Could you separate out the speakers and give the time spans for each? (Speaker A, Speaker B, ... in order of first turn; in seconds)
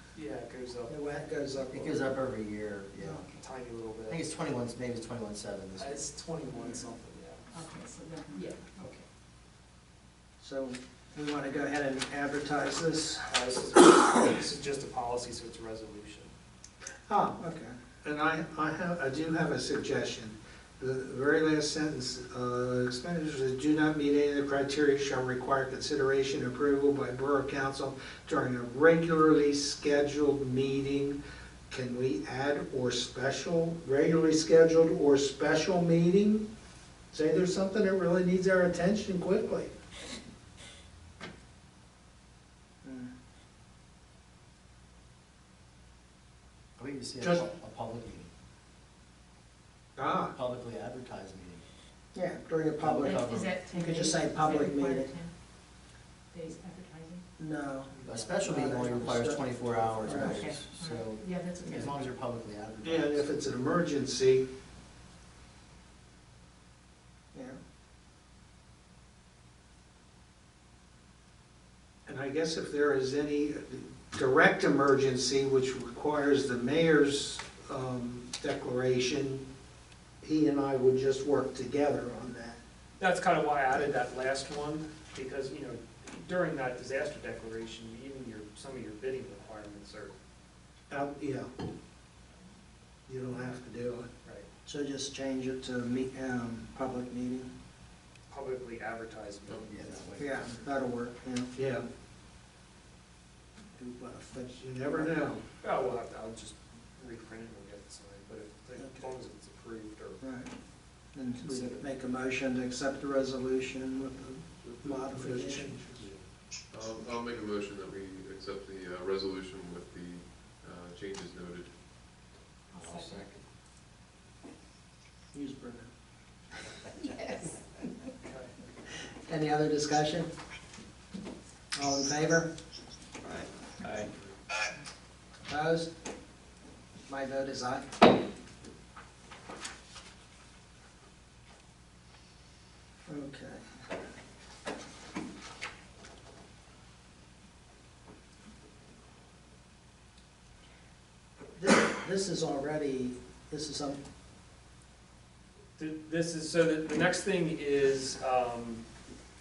Speaker A: 0.1-0.9, 3.4-4.3, 5.8-7.5, 13.3-16.3, 83.0-90.1, 98.3-100.0, 105.6-110.2, 111.4-111.9, 122.9-123.4, 128.2-128.5, 134.0-134.3, 155.8-158.8
Speaker B: 0.9-2.0, 10.4-13.3, 17.1-17.8, 42.8-43.1, 52.1-55.1, 57.4-59.4, 60.0-60.5, 67.3-67.6, 94.7-97.5, 100.2-101.5, 103.8-105.3, 108.8-109.0, 110.2-110.5, 111.1-115.8, 125.3-125.9, 129.3-130.3, 131.8-132.5, 135.5-135.9, 137.1-137.9, 143.1-143.7, 151.6-154.0
Speaker C: 1.7-3.3, 4.1-6.1, 46.8-48.3, 50.3-51.7, 52.8-53.6, 58.0-63.3, 99.7-100.6
Speaker D: 7.5-9.1, 53.1-55.3, 56.3-57.2, 60.1-62.0, 122.7-123.2
Speaker E: 18.0-36.5, 37.1-39.7, 50.0-50.3, 62.8-64.4, 72.1-79.5, 80.2-82.6, 90.9-91.5, 93.1-94.1, 101.6-101.8, 104.5-105.4, 114.9-116.1
Speaker F: 114.6-115.1, 116.1-121.8